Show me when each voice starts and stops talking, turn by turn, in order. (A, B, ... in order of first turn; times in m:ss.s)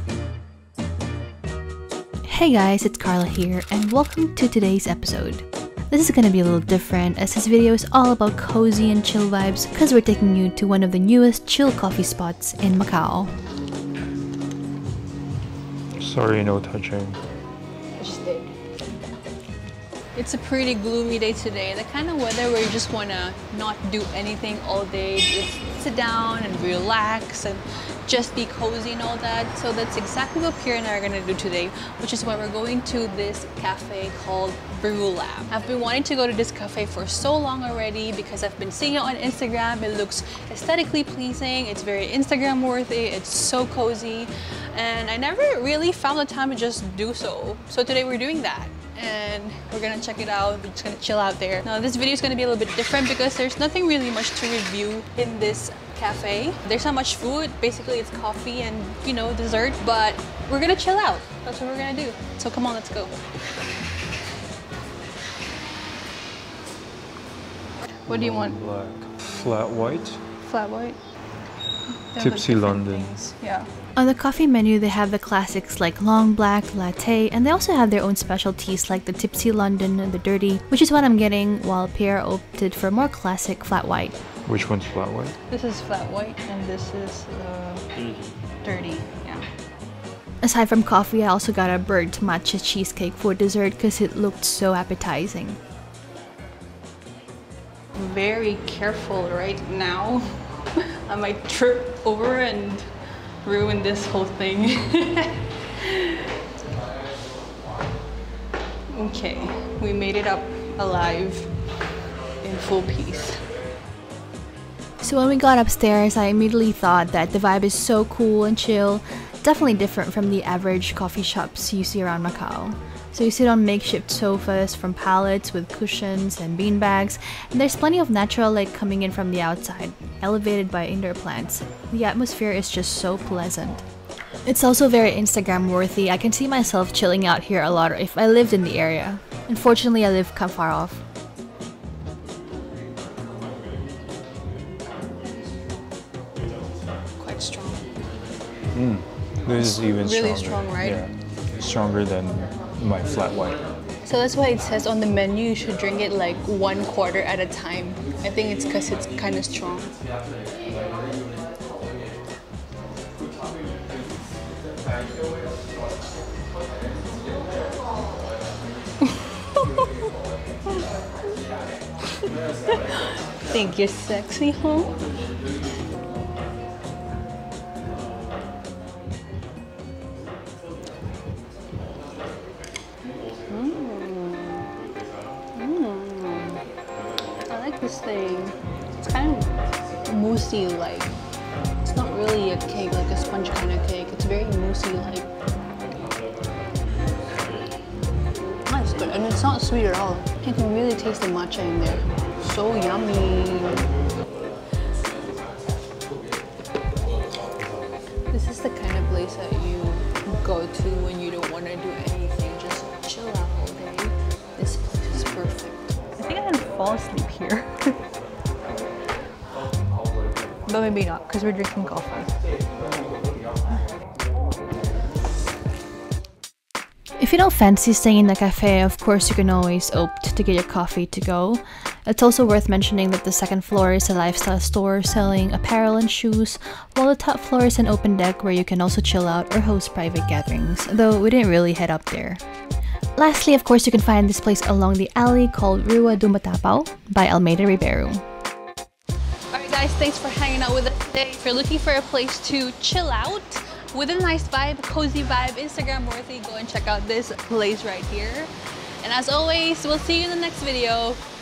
0:02.3-0:13.3 A
0:16.0-0:17.2 B
0:18.0-0:18.5 C
0:20.1-1:03.1 C
1:08.1-1:08.6 C
1:08.1-1:10.2 B
1:10.4-1:11.0 C
1:11.9-1:13.7 C
1:12.2-1:13.1 B
1:14.0-1:24.2 A
1:24.4-1:25.4 B
1:25.5-1:27.9 C
1:28.6-1:29.4 C
1:30.4-1:35.6 A
1:37.9-1:40.4 C
1:41.0-1:42.9 C
1:43.4-1:46.1 C
1:48.9-1:51.5 C
1:52.4-1:53.4 C
1:55.0-2:13.8 A
2:14.4-2:21.0 A
2:27.2-2:27.9 C
2:28.7-2:33.6 B
2:29.5-2:31.1 C
2:34.0-2:39.9 C
2:53.4-2:55.0 C
3:03.5-3:04.7 C
3:05.5-3:06.6 C
3:07.5-3:11.1 C
3:11.8-3:15.3 C
3:18.6-3:24.0 C
3:28.3-3:38.0 C
3:40.7-3:42.3 C
3:47.2-4:02.4 A
4:03.2-4:08.2 A
4:09.5-4:18.5 C
4:19.0-4:21.2 C